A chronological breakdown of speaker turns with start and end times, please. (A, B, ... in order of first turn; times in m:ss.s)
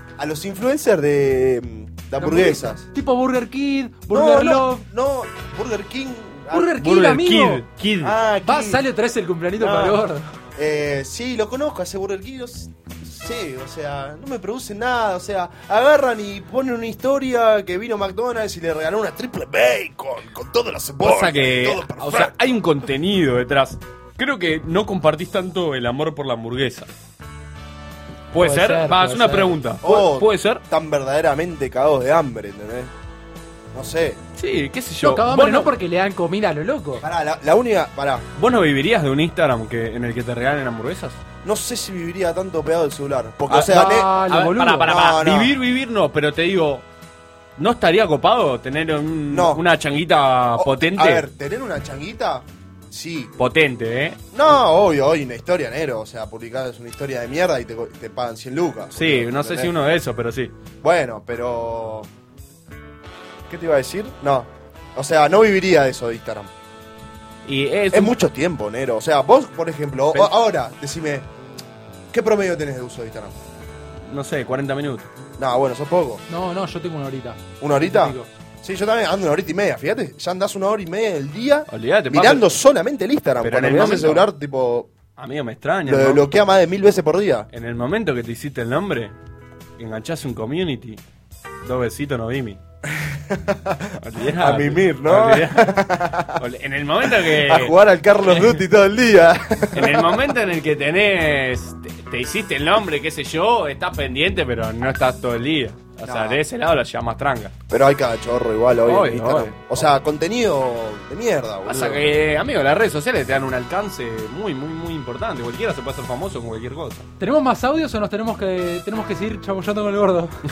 0:00.2-0:02.9 A
0:02.2-0:04.8 B
0:04.1-0:06.8 A
0:06.5-0:07.6 B
0:06.8-0:08.2 C
0:08.0-0:08.8 A
0:08.4-0:10.3 B
0:09.6-0:22.5 A
0:21.0-0:26.9 C
0:28.3-0:30.6 C
0:28.4-0:29.6 B
0:29.8-0:32.9 A
0:33.7-0:34.2 A
0:34.4-0:35.7 C
0:35.0-0:37.0 B
0:37.0-0:38.3 A
0:38.4-0:41.2 C
0:41.4-0:44.1 A
0:43.5-0:46.8 C
0:43.5-0:44.9 B
0:44.8-0:45.6 A
0:47.6-0:51.3 C
0:49.3-0:49.6 A
0:50.5-0:53.3 A
0:53.4-0:54.2 C
0:54.3-0:59.8 A
0:58.9-1:00.5 C
1:00.8-1:02.1 A
1:03.5-1:06.5 A
1:07.4-1:08.2 C
1:07.9-1:11.3 A
1:12.1-1:13.4 A
1:14.1-1:15.1 C
1:15.4-1:16.2 A
1:16.3-1:18.3 B
1:17.6-1:24.9 A
1:21.7-1:22.5 C
1:23.4-1:24.3 C
1:25.2-1:26.3 C
1:25.8-1:27.5 A
1:27.5-1:29.2 C
1:29.8-1:31.0 C
1:31.6-1:32.6 C
1:32.9-1:36.4 A
1:34.0-1:37.8 C
1:37.0-1:40.2 A
1:38.3-1:38.6 C
1:39.7-1:47.5 C
1:46.0-1:46.4 A
1:47.7-1:52.1 A
1:48.8-1:49.6 C
1:51.7-1:57.1 C
1:57.2-2:00.4 B